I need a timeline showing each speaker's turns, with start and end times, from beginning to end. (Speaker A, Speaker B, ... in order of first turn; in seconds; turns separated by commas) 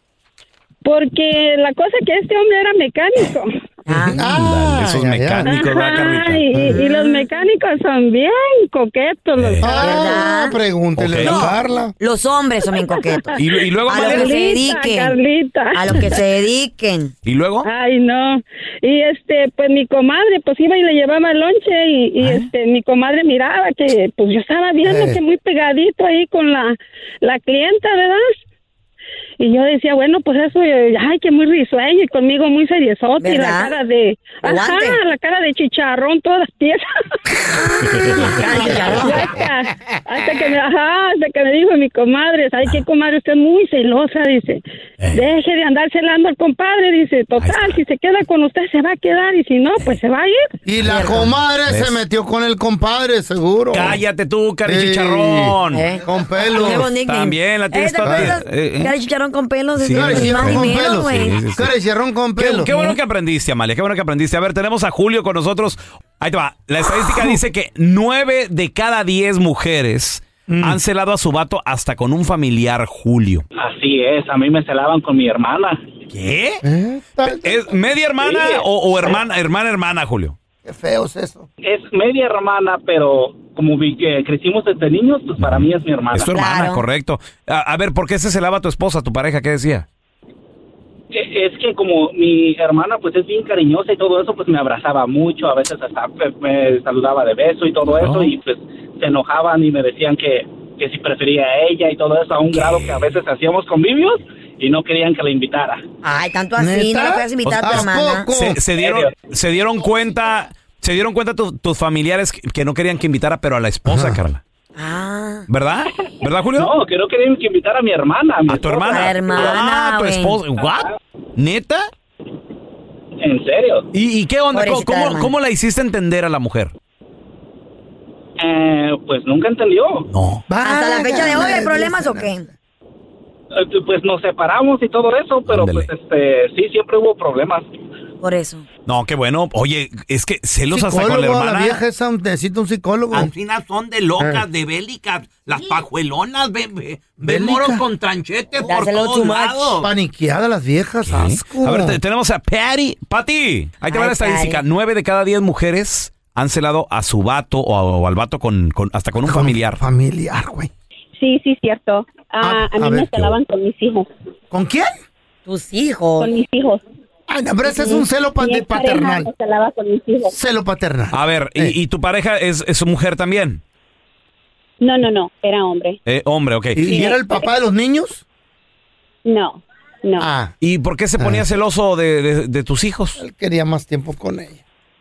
Speaker A: 0.8-3.5, Speaker B: 3.9-4.2, Speaker C: 4.1-5.5, Speaker D: 4.1-6.4, Speaker A: 5.5-10.1, Speaker B: 6.5-7.3, Speaker D: 9.4-9.6, Speaker C: 9.6-11.9, Speaker B: 9.8-10.5, Speaker D: 11.0-11.5, Speaker B: 11.2-13.3, Speaker A: 12.7-16.2, Speaker D: 13.4-14.3, Speaker B: 13.9-15.2, Speaker B: 15.7-17.1, Speaker D: 17.2-17.7, Speaker A: 17.6-28.4, Speaker C: 24.8-25.2, Speaker A: 29.4-36.9, Speaker B: 33.2-33.7, Speaker B: 34.4-35.0, Speaker B: 37.6-39.5, Speaker D: 37.9-38.3, Speaker A: 38.3-44.6, Speaker D: 45.0-45.3, Speaker A: 45.1-50.4, Speaker D: 47.4-47.8, Speaker C: 50.6-54.0, Speaker B: 50.8-51.3, Speaker D: 51.7-52.0, Speaker D: 53.7-55.9, Speaker C: 54.7-55.5, Speaker B: 55.7-61.4, Speaker C: 56.0-56.9, Speaker D: 57.0-58.9, Speaker C: 58.0-58.3, Speaker D: 59.8-61.7, Speaker C: 59.9-62.7, Speaker D: 62.4-73.4, Speaker B: 62.7-63.0, Speaker C: 70.5-70.8, Speaker E: 73.5-75.8, Speaker D: 76.1-76.6, Speaker C: 76.6-77.6, Speaker D: 77.4-80.3, Speaker C: 80.6-81.5, Speaker E: 81.6-86.5, Speaker D: 85.4-89.8, Speaker B: 86.3-86.8, Speaker E: 91.1-105.8, Speaker D: 97.9-98.3, Speaker D: 102.5-103.0, Speaker B: 106.0-108.3, Speaker C: 106.6-108.6, Speaker D: 107.4-114.4, Speaker E: 108.8-109.1, Speaker C: 113.9-114.2, Speaker B: 114.8-115.5, Speaker D: 115.5-116.7, Speaker E: 116.5-119.6, Speaker D: 118.5-121.9, Speaker B: 118.9-120.4, Speaker E: 120.6-120.9, Speaker E: 123.2-123.8, Speaker D: 123.9-126.7, Speaker B: 124.5-125.3, Speaker E: 128.4-130.1, Speaker D: 130.1-130.4, Speaker C: 130.5-132.3, Speaker B: 130.6-132.4, Speaker E: 133.6-137.6, Speaker D: 135.5-135.9, Speaker B: 138.2-138.7, Speaker D: 138.8-141.8, Speaker C: 140.7-143.3, Speaker F: 143.1-149.9, Speaker C: 147.2-147.8, Speaker B: 148.6-149.8, Speaker C: 149.8-152.0, Speaker D: 151.0-159.8, Speaker B: 153.9-154.6, Speaker C: 159.2-160.7, Speaker G: 161.2-164.1, Speaker C: 162.4-163.3, Speaker C: 164.5-164.9, Speaker B: 165.4-166.3, Speaker G: 166.2-166.8, Speaker C: 167.3-169.3, Speaker G: 168.4-170.3, Speaker C: 170.3-171.7, Speaker D: 171.1-173.6, Speaker G: 174.8-176.0, Speaker D: 176.1-177.1, Speaker C: 176.7-178.2, Speaker G: 176.8-177.5, Speaker G: 179.2-180.3, Speaker C: 180.2-180.5, Speaker D: 180.6-183.2, Speaker C: 181.2-181.4, Speaker C: 183.2-184.6